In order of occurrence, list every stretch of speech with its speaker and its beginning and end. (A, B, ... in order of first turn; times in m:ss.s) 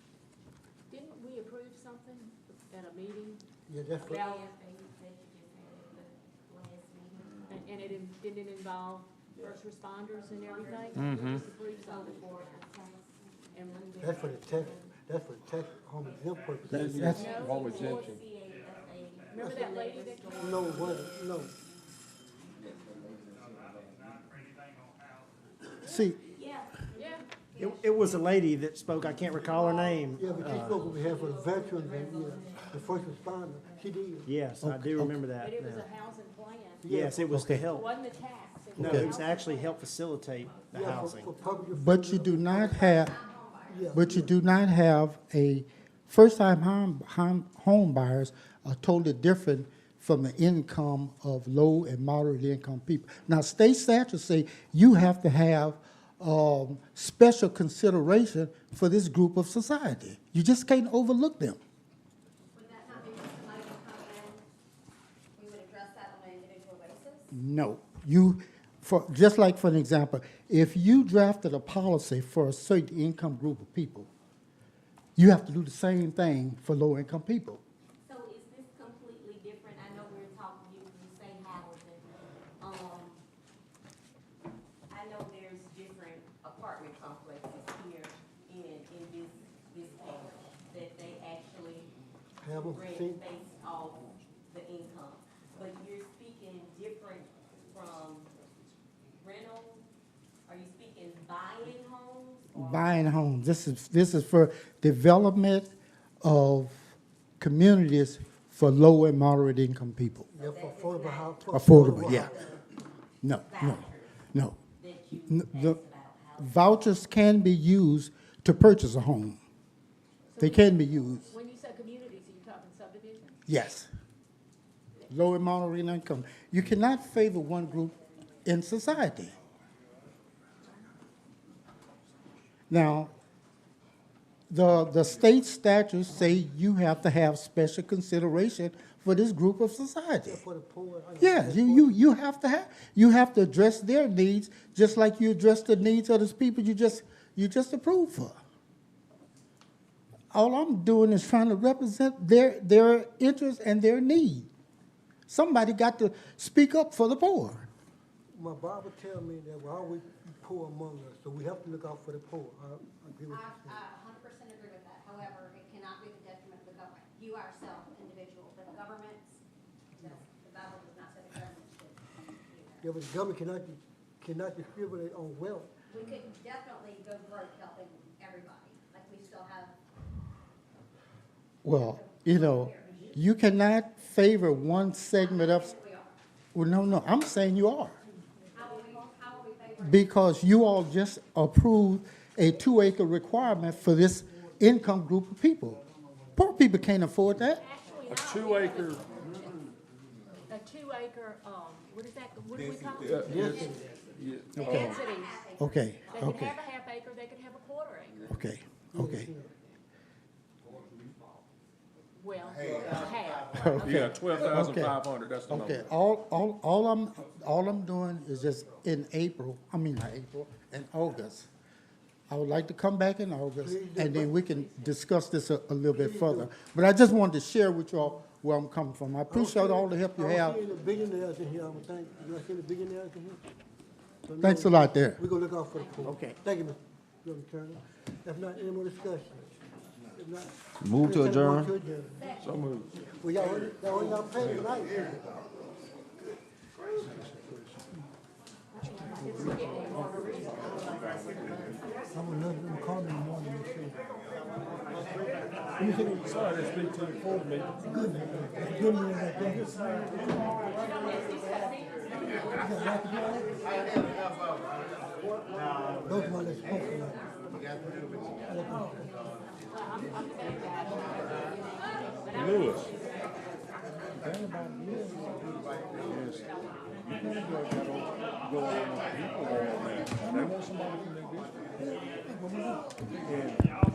0:00.9-0:03.4 A
0:03.7-0:04.2 B
0:04.0-0:07.5 C
0:04.1-0:04.5 A
0:07.5-0:12.7 A
0:10.4-0:14.9 C
0:11.0-0:11.4 D
0:13.5-0:13.9 A
0:14.0-0:17.2 B
0:16.7-0:18.2 D
0:17.0-0:17.2 E
0:17.0-0:21.6 C
0:17.1-0:18.2 A
0:19.3-0:20.6 A
0:20.4-0:21.5 B
0:25.8-0:26.2 E
0:26.3-0:28.4 C
0:27.0-0:27.2 A
0:27.6-0:30.9 F
0:29.4-0:32.9 C
0:30.2-0:34.3 B
0:34.2-0:35.9 F
0:34.6-0:35.2 E
0:35.4-0:36.9 A
0:36.8-0:37.4 B
0:36.8-0:37.9 F
0:37.3-0:37.6 E
0:37.6-0:39.7 A
0:38.8-0:41.4 F
0:38.8-0:39.1 E
0:39.3-0:39.7 C
0:40.4-0:41.6 C
0:40.7-0:43.1 B
0:41.7-0:43.1 E
0:42.6-0:44.2 G
0:43.7-0:44.3 B
0:43.9-1:01.6 E
1:02.5-1:04.4 G
1:05.3-1:07.3 G
1:07.3-1:14.1 E
1:15.2-1:17.6 E
1:18.0-1:22.1 C
1:22.6-1:23.2 C
1:24.9-1:31.9 C
1:32.4-1:33.2 B
1:32.6-1:38.3 C
1:39.2-1:39.9 C
1:40.5-1:43.0 C
1:42.5-1:45.7 E
1:46.2-1:50.3 E
1:50.3-1:52.6 B
1:50.4-1:52.6 C
1:51.5-1:52.4 E
1:53.2-1:54.6 E
1:53.4-1:54.2 C
1:54.8-1:56.8 C
1:55.3-1:55.8 E
1:56.4-1:59.4 E
2:00.4-2:00.7 A
2:00.4-2:01.3 E
2:01.3-2:03.4 A
2:03.5-2:03.9 E
2:05.1-2:09.3 E
2:12.7-2:13.1 E
2:14.5-2:20.4 E
2:20.2-2:21.9 B
2:21.2-2:28.4 E
2:30.3-2:34.5 E
2:35.3-2:37.7 E
2:38.3-2:43.8 B
2:43.3-2:49.4 G
2:50.0-2:52.8 G
2:52.8-2:55.7 B
2:55.9-2:59.7 G
3:01.6-3:05.7 E
3:01.7-3:03.1 G
3:05.1-3:06.2 G
3:06.5-3:08.0 E
3:08.5-3:10.2 G
3:09.8-3:15.8 E
3:16.4-3:17.6 E
3:17.6-3:19.5 A
3:18.1-3:19.2 D
3:20.5-3:23.6 A
3:23.0-3:25.0 D
3:23.2-3:23.8 B
3:23.4-3:23.8 G
3:24.6-3:25.5 A
3:24.6-3:26.3 G
3:25.6-3:26.6 E
3:26.1-3:28.3 A
3:28.3-3:29.3 E
3:28.9-3:29.6 B
3:32.2-3:34.1 A
3:33.5-3:41.5 E
3:33.8-3:35.9 D
3:42.3-3:50.6 E
3:43.6-3:44.3 B
3:44.4-3:45.0 A
3:45.9-3:46.5 B
3:49.3-3:53.4 B
3:54.2-3:59.5 B
3:54.4-3:55.2 E
3:56.0-3:56.4 F
4:00.1-4:02.2 B
4:02.4-4:02.9 D
4:03.2-4:05.2 B
4:08.9-4:10.9 A
4:12.1-4:14.0 B
4:15.8-4:16.6 B
4:16.2-4:17.8 D
4:17.8-4:20.6 B
4:20.7-4:24.0 C
4:22.6-4:23.8 B
4:25.5-4:26.4 F
4:26.0-4:27.3 B
4:28.4-4:29.1 B
4:29.7-4:33.0 A
4:32.3-4:32.9 D
4:34.2-4:35.2 D
4:36.1-4:36.4 D
4:36.4-4:36.8 A
4:37.0-4:41.8 D
4:42.4-4:42.7 B
4:43.2-4:43.6 D